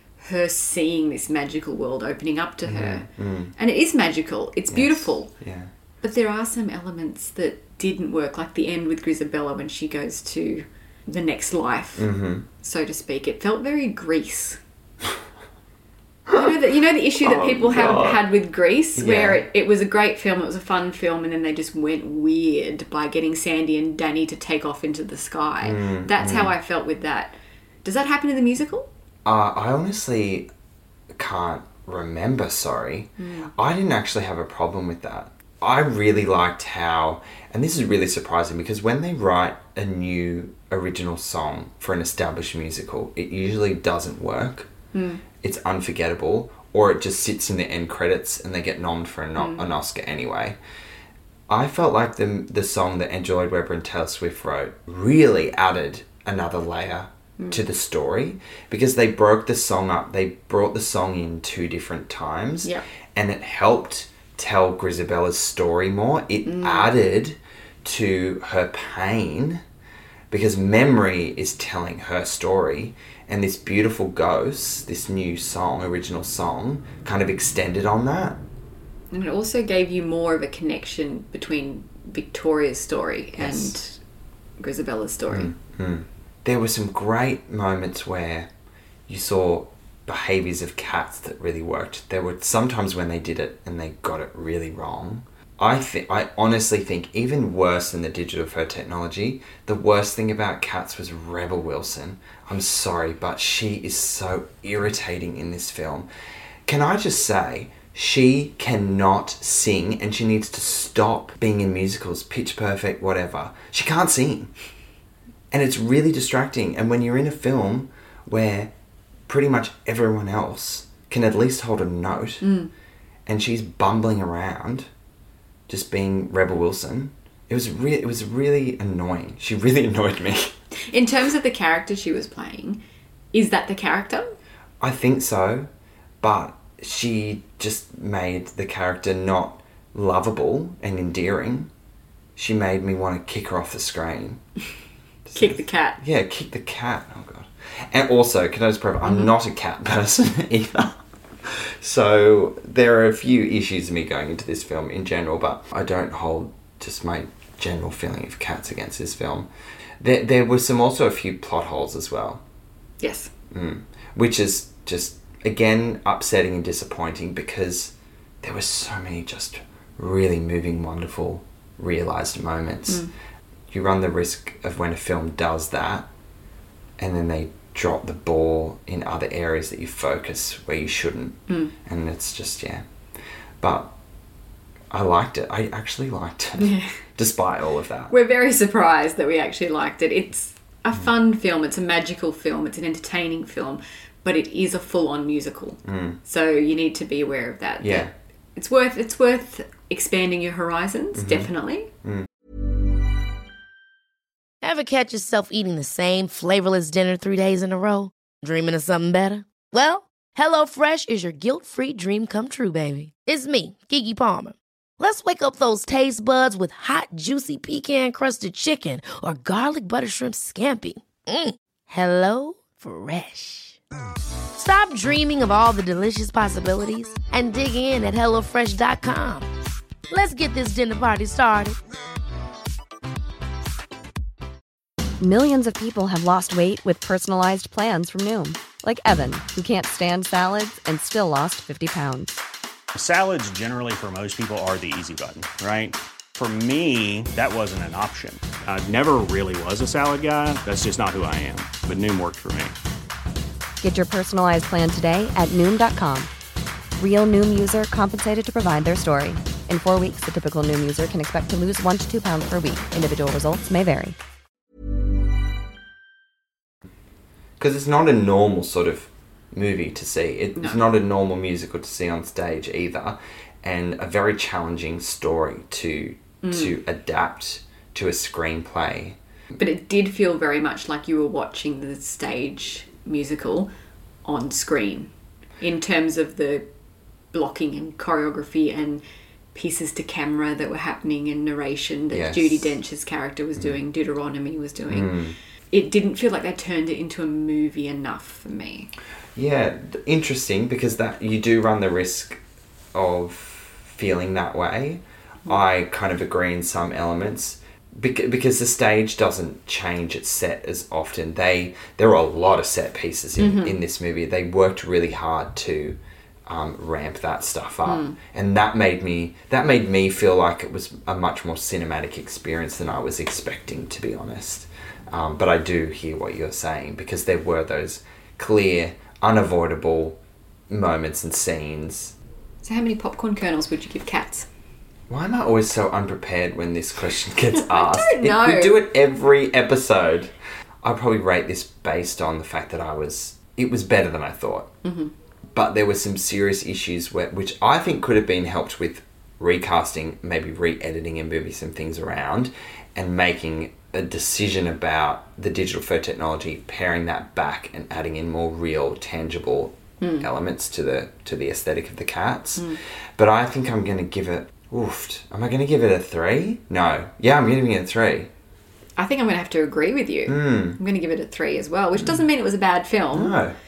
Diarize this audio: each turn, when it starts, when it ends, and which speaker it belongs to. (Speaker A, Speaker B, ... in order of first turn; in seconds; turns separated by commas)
Speaker A: 0.2-5.3, Speaker B: 2.6-3.5, Speaker B: 4.7-5.7, Speaker A: 6.0-14.6, Speaker B: 12.0-12.5, Speaker A: 16.3-28.9, Speaker B: 17.2-18.2, Speaker B: 19.0-19.4, Speaker B: 25.6-26.6, Speaker B: 29.2-30.5, Speaker B: 31.1-44.7, Speaker A: 33.2-33.5, Speaker A: 44.9-45.2, Speaker B: 45.4-50.6, Speaker A: 49.4-49.6, Speaker B: 51.5-69.6, Speaker A: 66.5-66.9, Speaker B: 70.3-78.4, Speaker A: 79.1-84.0, Speaker B: 83.4-83.8, Speaker A: 84.6-85.5, Speaker B: 85.3-88.5, Speaker B: 89.1-106.1, Speaker B: 106.7-114.5, Speaker B: 115.5-118.7, Speaker B: 119.3-122.5, Speaker A: 122.4-122.7, Speaker B: 123.3-124.9, Speaker B: 125.7-130.5, Speaker A: 130.9-132.8, Speaker A: 133.3-134.3, Speaker B: 134.8-135.7, Speaker B: 136.2-141.7, Speaker B: 142.4-144.4, Speaker B: 145.3-159.5, Speaker A: 145.3-146.0, Speaker A: 149.0-149.3, Speaker B: 160.0-162.4, Speaker A: 163.0-163.3, Speaker B: 163.5-173.1, Speaker A: 172.9-173.1, Speaker B: 173.7-176.1, Speaker B: 177.0-182.8, Speaker A: 181.5-181.7, Speaker B: 183.6-183.9, Speaker B: 184.9-188.1, Speaker A: 186.6-186.9, Speaker A: 188.1-201.9, Speaker B: 195.8-196.2, Speaker B: 197.8-198.1, Speaker B: 201.2-201.5, Speaker C: 204.6-223.8, Speaker C: 224.6-229.5, Speaker C: 230.1-231.8, Speaker D: 235.2-242.4, Speaker E: 242.9-252.8, Speaker D: 253.8-256.3, Speaker D: 257.0-264.2, Speaker B: 267.6-279.2, Speaker A: 276.4-276.8, Speaker A: 279.6-283.7, Speaker A: 284.2-286.7, Speaker A: 287.3-289.0, Speaker A: 289.5-295.1, Speaker B: 292.1-292.7, Speaker B: 294.9-295.4, Speaker A: 295.7-298.9, Speaker B: 299.4-302.4, Speaker B: 302.9-332.1, Speaker A: 313.4-313.8, Speaker A: 317.8-318.2, Speaker A: 332.6-334.5, Speaker B: 335.1-344.7, Speaker A: 337.5-338.8, Speaker A: 344.8-345.1, Speaker B: 345.5-368.3, Speaker A: 360.0-360.3, Speaker A: 369.0-373.4, Speaker B: 370.3-370.8, Speaker B: 373.1-373.6